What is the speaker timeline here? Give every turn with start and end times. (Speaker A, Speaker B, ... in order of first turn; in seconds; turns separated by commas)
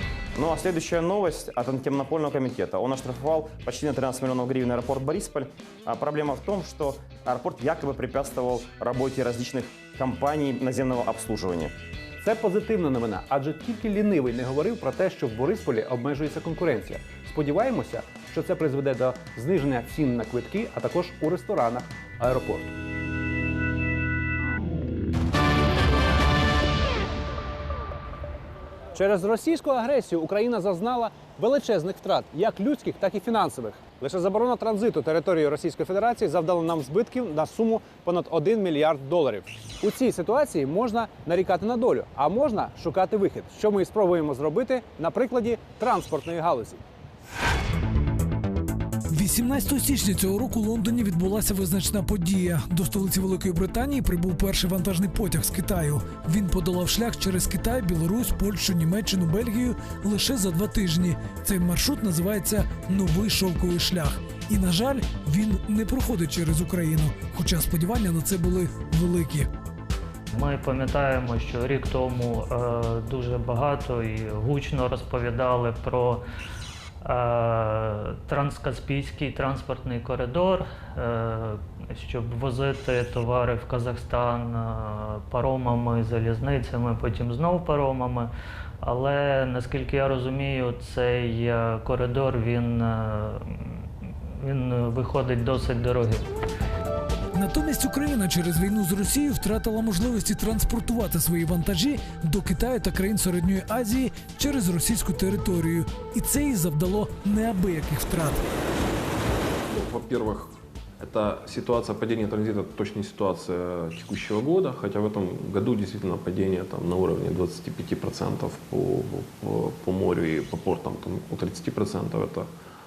Speaker A: 0.3-11.7, Speaker B: 12.2-22.7, Speaker B: 28.9-46.8, Speaker C: 49.1-69.5, Speaker D: 70.3-76.2, Speaker D: 77.0-88.3, Speaker D: 88.8-93.8, Speaker D: 94.4-96.3, Speaker C: 97.3-108.4, Speaker E: 109.7-122.5